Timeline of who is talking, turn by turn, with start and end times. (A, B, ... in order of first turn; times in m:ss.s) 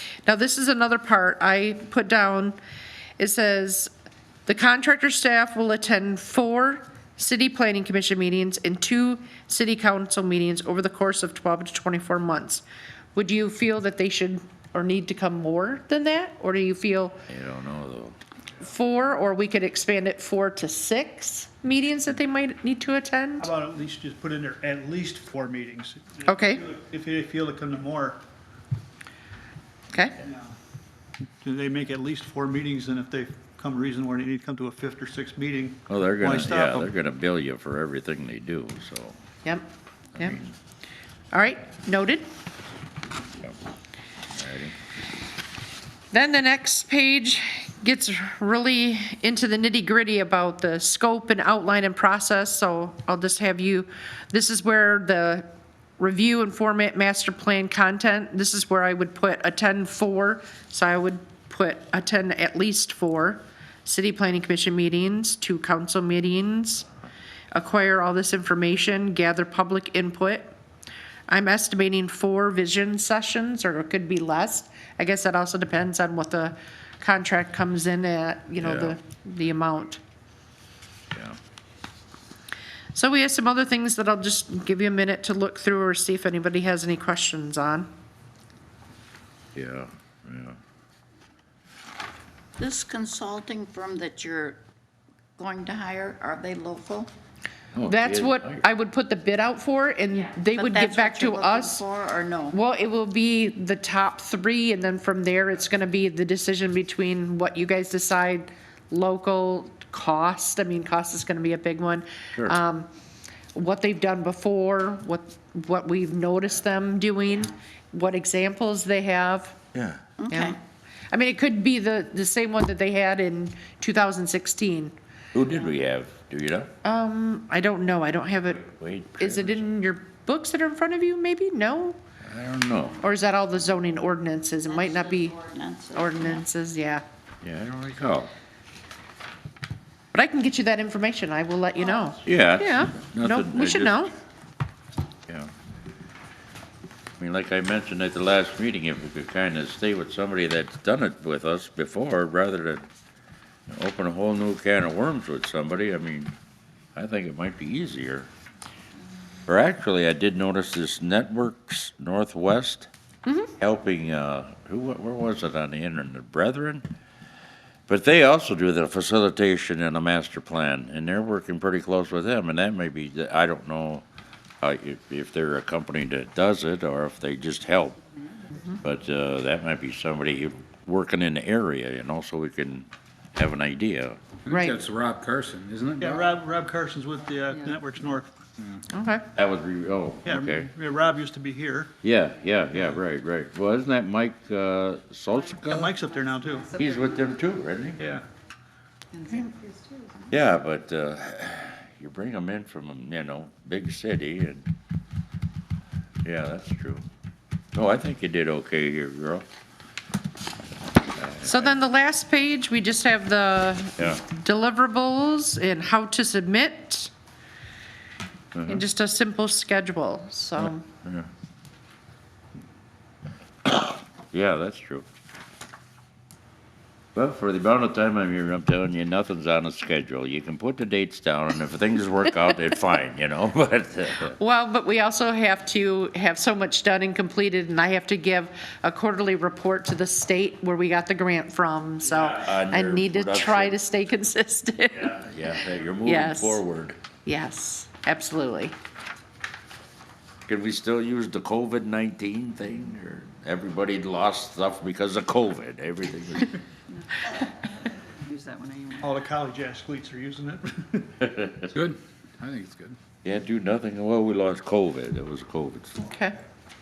0:00.2-0:02.6 A
0:03.2-0:03.9 A
0:04.5-0:12.6 A
0:13.2-0:17.2 A
0:17.3-0:18.2 B
0:18.6-0:23.5 A
0:23.4-0:28.2 C
0:26.3-0:26.6 A
0:29.9-0:30.2 A
0:30.2-0:30.5 C
0:31.4-0:36.9 C
0:35.9-0:39.2 B
0:39.4-0:40.4 A
0:40.2-0:40.5 B
0:41.3-0:42.3 A
0:44.3-0:44.8 B
0:46.1-0:55.5 A
0:56.0-1:06.9 A
1:07.5-1:10.6 A
1:11.3-1:20.0 A
1:18.6-1:19.0 B
1:23.0-1:27.9 A
1:29.6-1:30.6 B
1:32.6-1:34.6 D
1:35.4-1:37.1 D
1:37.7-1:38.6 B
1:37.9-1:41.8 A
1:40.4-1:42.6 D
1:42.5-1:52.9 A
1:53.5-1:59.6 A
1:59.7-2:00.0 B
2:00.2-2:00.6 D
2:00.3-2:00.6 A
2:01.1-2:04.9 A
2:05.3-2:06.7 B
2:06.8-2:12.0 A
2:08.6-2:09.6 B
2:12.2-2:13.0 B
2:13.0-2:15.4 A
2:14.7-2:16.4 D
2:15.9-2:17.0 A
2:17.4-2:18.3 B
2:20.1-2:24.1 A
2:22.2-2:24.0 B
2:27.2-2:32.8 B
2:33.7-2:36.3 B
2:36.9-2:38.3 B
2:39.5-2:42.9 B
2:43.6-2:46.8 B
2:47.9-2:54.0 B
2:54.6-2:58.0 B
2:58.8-3:04.2 B
3:04.5-3:06.3 E
3:04.5-3:04.8 A
3:06.0-3:08.3 C
3:08.6-3:08.8 E
3:08.9-3:09.2 A
3:09.3-3:10.7 B
3:10.2-3:11.9 C
3:12.0-3:16.0 B
3:15.7-3:16.7 C
3:16.8-3:18.2 B
3:19.1-3:20.2 D
3:20.3-3:24.6 B
3:26.2-3:27.0 B
3:27.7-3:29.5 B
3:31.2-3:31.8 B
3:31.4-3:37.1 A
3:34.0-3:34.2 B
3:38.5-3:38.8 B
3:38.7-3:40.8 A
3:40.6-3:41.3 B
3:43.7-3:45.1 B
3:47.2-3:54.4 B
3:54.4-4:05.3 A
4:02.0-4:03.8 B
4:05.0-4:07.0 B
4:06.0-4:06.6 A
4:07.2-4:08.8 A
4:10.5-4:16.6 B
4:18.3-4:19.1 D
4:19.0-4:21.2 C
4:21.2-4:21.7 B
4:21.7-4:23.0 E
4:23.2-4:26.1 B
4:26.0-4:26.4 A